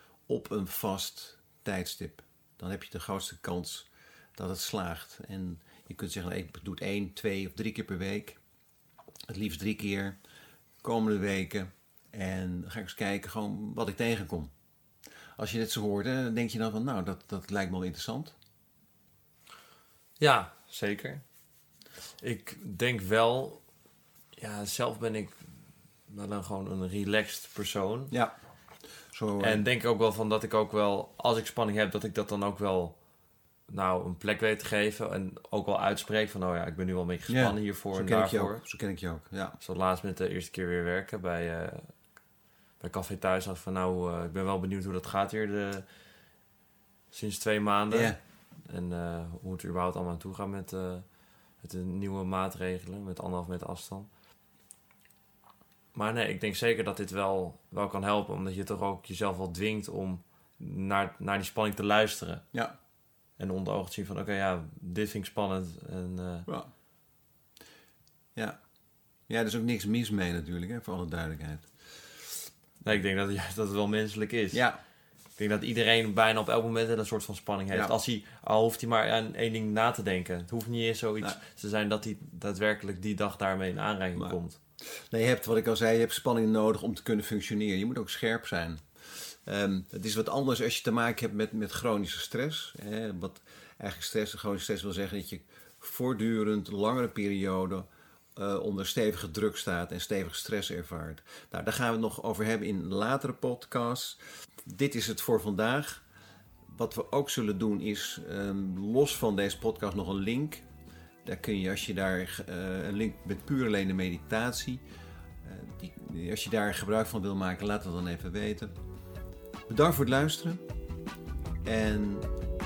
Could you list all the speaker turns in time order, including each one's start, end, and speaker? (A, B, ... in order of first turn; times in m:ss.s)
0:00.3-0:08.4 A
0:09.3-0:10.2 A
0:10.8-0:14.5 A
0:15.4-0:18.4 A
0:20.2-0:21.2 B
0:22.2-0:23.6 B
0:24.4-0:25.4 B
0:26.1-0:28.1 B
0:28.1-0:28.4 A
0:29.1-0:29.6 A
0:29.4-0:33.0 B
0:33.7-0:38.6 B
0:37.3-0:39.6 A
0:39.6-0:42.0 B
0:42.8-0:45.9 B
0:47.1-0:54.1 B
0:47.9-0:48.2 A
0:55.9-1:02.5 B
1:03.4-1:06.5 B
1:09.3-1:11.7 A
1:12.8-1:14.6 B
1:14.5-1:14.8 A
1:15.4-1:24.6 B
1:25.1-1:46.0 A
1:46.7-1:50.7 A
1:51.2-1:54.8 A
1:55.4-1:58.7 A
1:59.7-2:00.6 A
2:01.6-2:02.3 A